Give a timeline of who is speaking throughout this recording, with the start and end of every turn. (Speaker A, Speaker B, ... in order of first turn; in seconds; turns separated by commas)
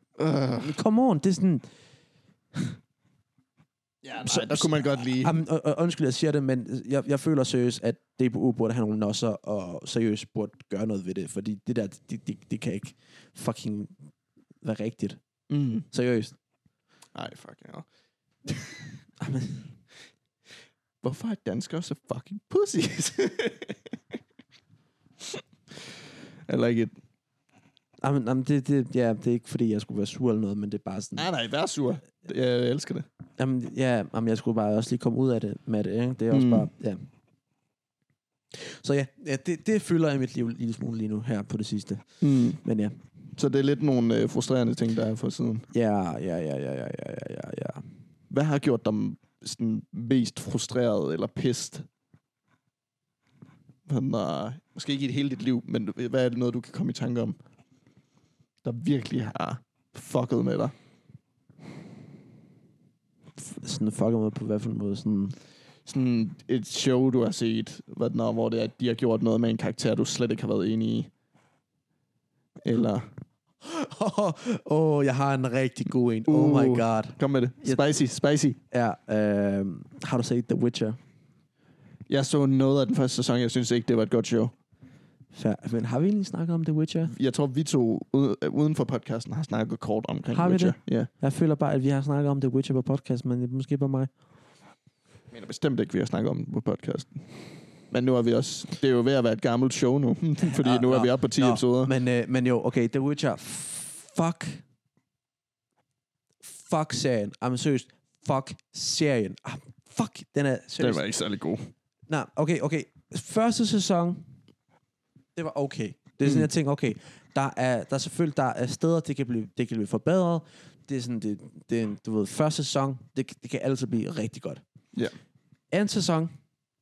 Speaker A: 0.2-0.8, Speaker B: 0.5-1.7, Speaker A: 4.0-5.4, Speaker B: 4.2-13.9, Speaker B: 14.6-15.2, Speaker A: 15.5-15.9, Speaker B: 15.9-16.4, Speaker A: 17.1-17.9, Speaker A: 18.4-18.8, Speaker B: 19.2-19.7, Speaker A: 21.0-23.8, Speaker A: 25.2-25.8, Speaker A: 26.4-26.9, Speaker B: 28.0-31.3, Speaker A: 31.2-33.1, Speaker B: 33.4-37.0, Speaker A: 36.3-36.7, Speaker B: 38.5-43.0, Speaker A: 42.2-42.6, Speaker A: 43.4-45.7, Speaker B: 45.7-47.9, Speaker A: 48.3-51.9, Speaker A: 53.9-57.4, Speaker A: 58.6-60.7, Speaker B: 63.4-65.4, Speaker A: 65.9-71.1, Speaker A: 72.6-73.1, Speaker B: 73.6-77.8, Speaker A: 76.3-78.6, Speaker B: 78.7-81.0, Speaker A: 82.1-84.5, Speaker B: 85.3-87.1, Speaker A: 87.1-91.1, Speaker B: 90.3-94.1, Speaker A: 95.3-97.3, Speaker A: 97.9-101.9, Speaker B: 100.4-104.6, Speaker B: 106.4-111.0, Speaker A: 110.8-111.7, Speaker B: 112.1-114.3, Speaker B: 115.4-124.6, Speaker A: 116.2-116.5, Speaker B: 125.7-126.3